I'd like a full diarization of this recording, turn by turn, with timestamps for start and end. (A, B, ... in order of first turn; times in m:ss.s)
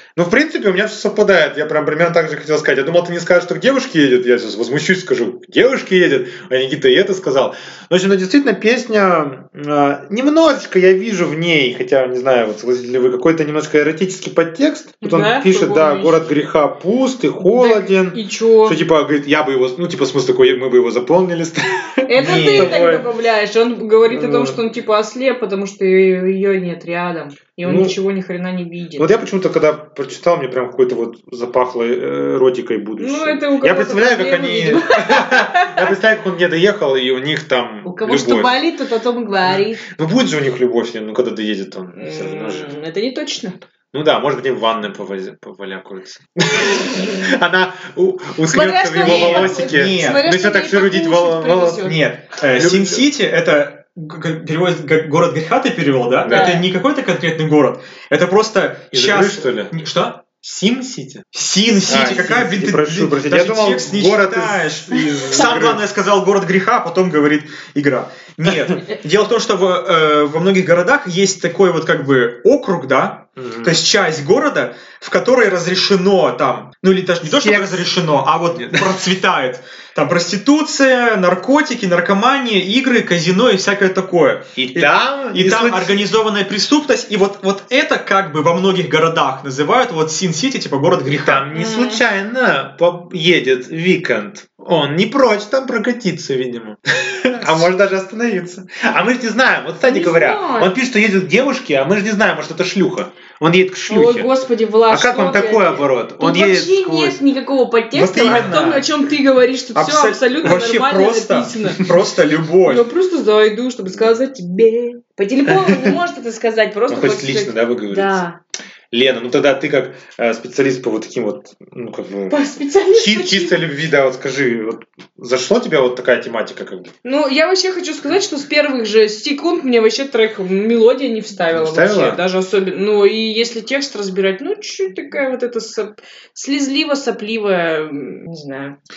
0:00.2-0:23.1 A
0:15.0-0:16.2 B
0:17.4-0:18.8 B
0:22.1-0:29.1 B
0:22.2-0:22.9 C
0:24.1-0:24.6 A
0:27.6-0:28.0 A
0:29.0-0:38.7 A
0:33.0-0:35.9 B
0:37.8-0:39.8 B
0:39.4-0:42.7 A
0:42.0-0:43.6 B
0:43.9-0:52.0 A
0:48.5-0:52.0 B
0:49.0-0:50.2 C
0:51.8-1:00.2 C
0:52.5-0:53.1 A
0:56.2-0:56.7 A
0:56.3-0:56.7 B
0:58.9-0:59.7 A
1:00.4-1:01.3 A
1:01.3-1:31.5 C
1:01.8-1:05.8 A
1:13.4-1:13.8 A
1:17.2-1:17.9 A
1:18.6-1:19.0 A
1:24.6-1:26.0 A
1:31.1-1:44.3 A
1:31.5-1:32.0 B
1:39.8-1:40.7 B
1:43.9-1:51.9 B
1:44.9-1:47.2 A
1:47.9-1:48.9 C
1:48.2-1:48.7 A
1:49.8-1:52.9 C
1:52.6-1:58.4 B
1:53.9-1:54.2 A
1:55.5-1:55.9 A
1:56.9-1:58.2 A
1:58.9-2:02.4 A
2:02.3-2:03.6 B
2:02.9-2:06.9 A
2:07.0-2:18.8 B
2:11.5-2:12.2 A